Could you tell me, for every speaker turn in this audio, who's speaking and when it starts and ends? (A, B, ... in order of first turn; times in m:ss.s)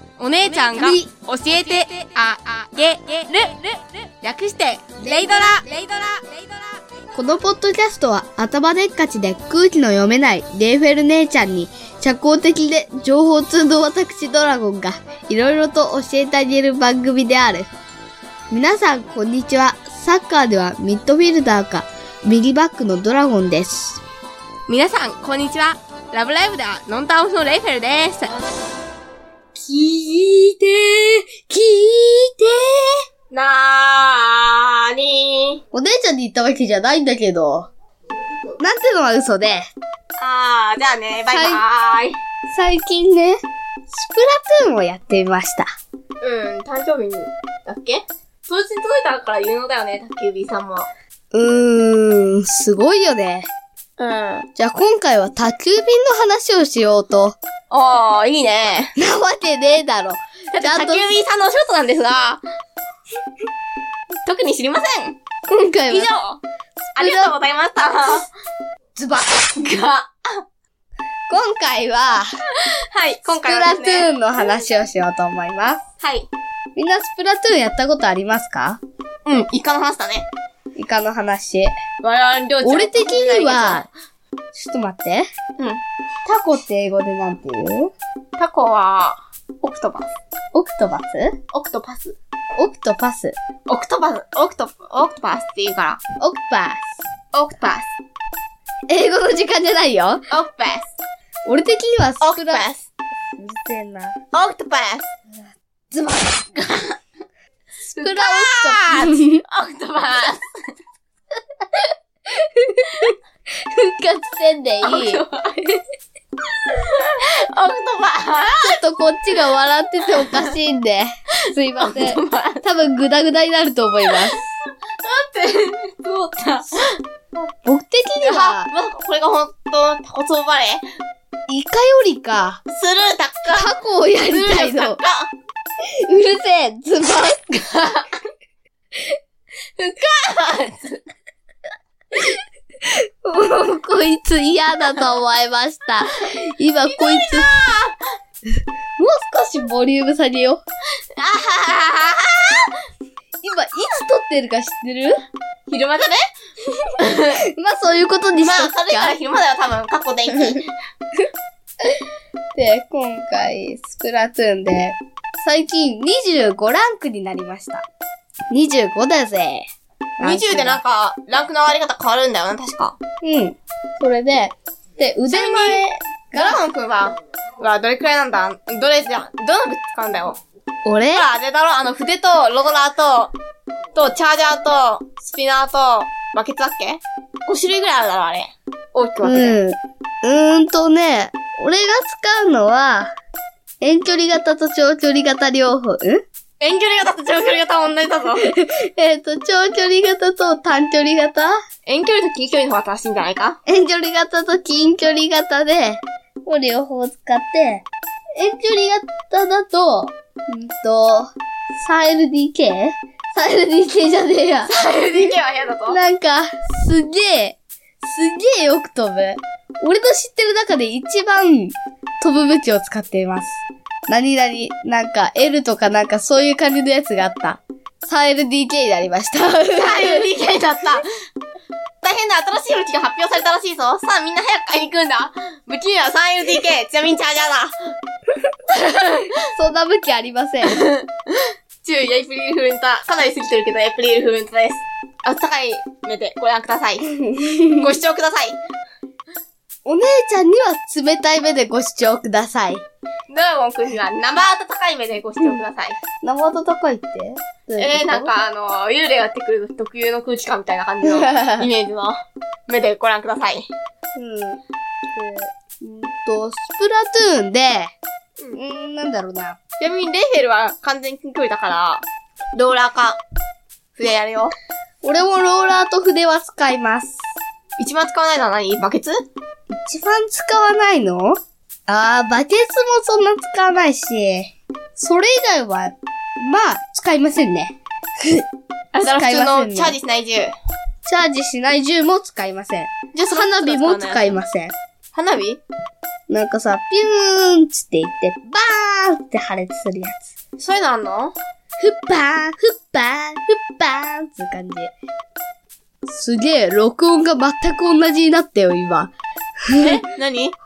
0:00.2-0:03.5 A
0:00.5-0:01.1 B
0:03.3-0:03.7 B
0:04.2-0:06.8 A
0:05.0-0:05.6 B
0:07.1-0:17.7 B
0:18.5-0:24.0 B
0:24.7-0:28.4 A
0:29.5-0:32.9 B
0:33.3-0:35.6 A
0:35.7-0:37.7 B
0:38.6-0:39.7 B
0:40.2-0:42.2 A
0:41.3-0:41.6 B
0:42.5-0:45.7 B
0:46.2-0:50.9 A
0:51.3-0:53.5 B
0:54.0-0:54.5 A
0:54.6-0:57.4 B
0:57.7-0:58.9 A
0:59.0-1:01.0 B
1:00.5-1:02.4 A
1:04.2-1:05.2 A
1:05.5-1:06.1 B
1:05.9-1:06.4 A
1:07.0-1:08.3 A
1:07.0-1:07.3 B
1:09.0-1:09.4 B
1:09.3-1:10.1 A
1:11.3-1:12.3 B
1:12.9-1:14.1 A
1:13.4-1:15.8 B
1:16.0-1:16.3 A
1:16.8-1:18.8 B
1:19.2-1:20.3 A
1:20.8-1:21.7 B
1:22.0-1:23.8 A
1:22.6-1:23.9 B
1:24.5-1:25.3 B
1:26.2-1:27.9 B
1:28.4-1:30.1 A
1:30.5-1:31.3 B
1:31.5-1:32.2 A
1:32.5-1:33.4 B
1:33.7-1:36.0 A
1:36.2-1:36.9 B
1:37.3-1:37.9 A
1:38.9-1:40.2 B
1:40.3-1:40.9 A
1:41.4-1:42.7 B
1:42.2-1:42.8 A
1:43.4-1:44.1 B
1:44.3-1:45.0 A
1:45.4-1:46.5 B
1:46.6-1:47.0 A
1:47.8-1:49.4 B
1:48.0-1:50.4 A
1:51.7-1:55.2 B
1:54.8-1:55.8 A
1:56.5-1:58.8 A
1:58.6-2:04.4 B
2:00.2-2:00.5 A
2:01.8-2:02.6 A
2:04.0-2:07.0 A
2:07.5-2:08.7 B
2:08.2-2:10.8 A
2:11.5-2:12.6 B
2:12.7-2:13.7 A
2:13.5-2:15.0 B
2:14.3-2:15.3 A
2:16.0-2:17.8 B
2:17.7-2:18.2 A
2:19.8-2:21.0 A
2:22.2-2:27.5 B
2:26.8-2:27.9 A
2:28.6-2:30.6 B
2:31.2-2:32.8 A
2:33.4-2:35.2 B
2:35.7-2:36.2 A
2:37.0-2:37.4 A
2:37.3-2:39.2 B
2:38.4-2:40.7 A
2:40.3-2:40.6 B
2:42.5-2:47.8 B
2:48.5-2:49.7 B
2:50.2-2:50.8 B
2:50.2-2:53.0 A
2:53.2-2:56.6 B
2:55.3-3:00.4 A
3:00.8-3:01.3 B
3:01.1-3:03.3 A
3:03.9-3:09.6 A
3:09.2-3:13.1 B
3:13.8-3:16.2 B
3:16.6-3:18.4 A
3:18.4-3:21.5 B
3:21.8-3:23.6 A
3:23.7-3:27.8 B
3:28.4-3:35.3 B
3:34.6-3:36.0 A
3:35.9-3:50.3 B
3:49.7-3:51.1 A
3:52.0-3:57.8 A
3:58.7-3:59.4 A
3:59.5-4:00.9 B
4:00.6-4:07.0 A
4:07.1-4:07.9 B
4:07.8-4:08.6 A
4:09.8-4:12.8 B
4:13.3-4:16.0 A
4:16.2-4:18.3 B
4:17.8-4:23.7 A
4:21.0-4:21.7 B
4:24.2-4:24.6 B
4:25.1-4:27.9 B
4:28.5-4:29.6 B
4:29.8-4:33.2 A
4:34.0-4:34.5 A
4:35.0-4:37.3 B
4:37.8-4:39.1 A
4:39.7-4:48.4 B
4:48.9-4:50.5 A
4:49.0-4:50.0 B
4:51.0-4:54.8 B
4:53.1-4:54.4 A
4:55.1-4:55.6 A
4:56.3-5:00.2 B
5:00.6-5:01.3 A
5:01.8-5:04.9 B
5:06.1-5:09.1 B
5:09.7-5:10.0 B
5:09.8-5:10.6 A